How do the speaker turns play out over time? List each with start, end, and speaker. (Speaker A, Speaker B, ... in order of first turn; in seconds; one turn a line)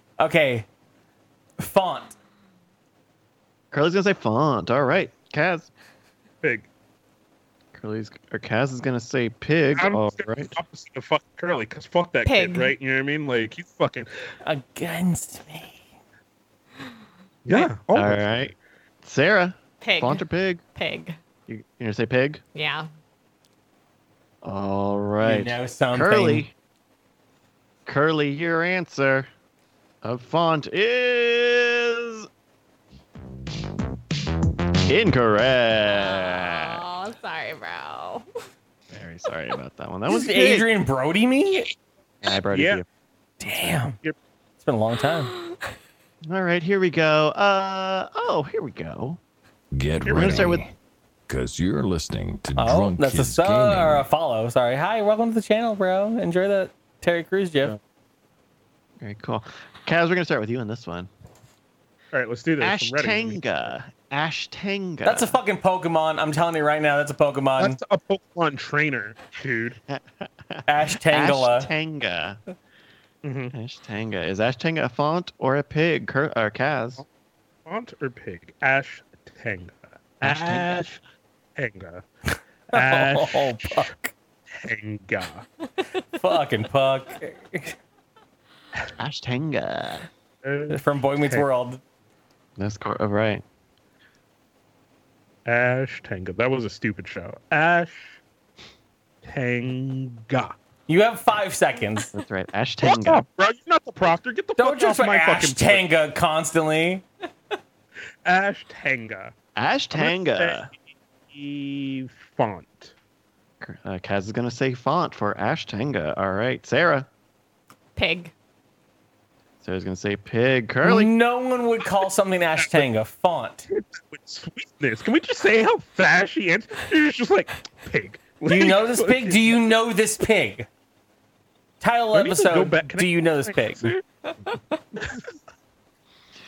Speaker A: 0.2-0.7
Speaker A: 1.6-2.1
Speaker B: 3.7-5.7
Speaker C: 6.4-6.7
Speaker B: 7.7-10.5
Speaker C: 9.8-14.1
Speaker D: 12.2-12.7
Speaker A: 14.4-15.8
Speaker C: 17.4-18.5
Speaker B: 17.5-18.5
Speaker B: 19.0-20.6
Speaker D: 19.8-20.2
Speaker D: 20.8-21.2
Speaker B: 21.5-22.4
Speaker D: 22.6-22.9
Speaker B: 24.4-26.5
Speaker A: 25.2-26.4
Speaker B: 27.9-29.3
Speaker B: 30.0-32.3
Speaker B: 34.9-36.8
Speaker D: 35.9-38.2
Speaker B: 38.9-40.7
Speaker A: 40.1-41.7
Speaker B: 42.2-42.8
Speaker C: 42.5-42.8
Speaker A: 43.4-44.0
Speaker A: 44.6-45.3
Speaker B: 46.3-49.2
Speaker E: 49.7-50.7
Speaker C: 50.0-50.5
Speaker B: 50.1-50.6
Speaker E: 51.3-54.1
Speaker A: 52.5-57.8
Speaker B: 59.0-61.1
Speaker C: 62.1-63.7
Speaker B: 62.6-65.3
Speaker A: 65.0-67.8
Speaker C: 67.6-69.8
Speaker B: 69.9-72.4
Speaker A: 70.7-71.7
Speaker C: 73.2-73.5
Speaker B: 73.5-77.0
Speaker C: 77.7-81.0
Speaker B: 80.2-80.9
Speaker C: 81.5-82.0
Speaker C: 82.7-83.9
Speaker A: 82.7-84.1
Speaker C: 84.5-85.5
Speaker A: 86.2-87.8
Speaker B: 89.0-90.1
Speaker C: 90.4-91.4
Speaker A: 90.7-91.8
Speaker B: 92.6-93.4
Speaker C: 95.5-98.2
Speaker C: 99.2-100.5
Speaker A: 100.9-102.1
Speaker B: 102.1-103.2
Speaker C: 102.8-105.8
Speaker A: 104.6-107.0
Speaker C: 108.2-109.3
Speaker B: 109.5-110.7
Speaker C: 109.9-110.7
Speaker C: 111.3-112.9
Speaker B: 113.6-117.1
Speaker D: 118.0-118.3
Speaker B: 119.6-121.1
Speaker A: 120.8-123.7
Speaker C: 122.6-122.8
Speaker C: 123.7-129.7
Speaker A: 128.4-130.7
Speaker A: 131.8-133.9
Speaker C: 132.1-134.0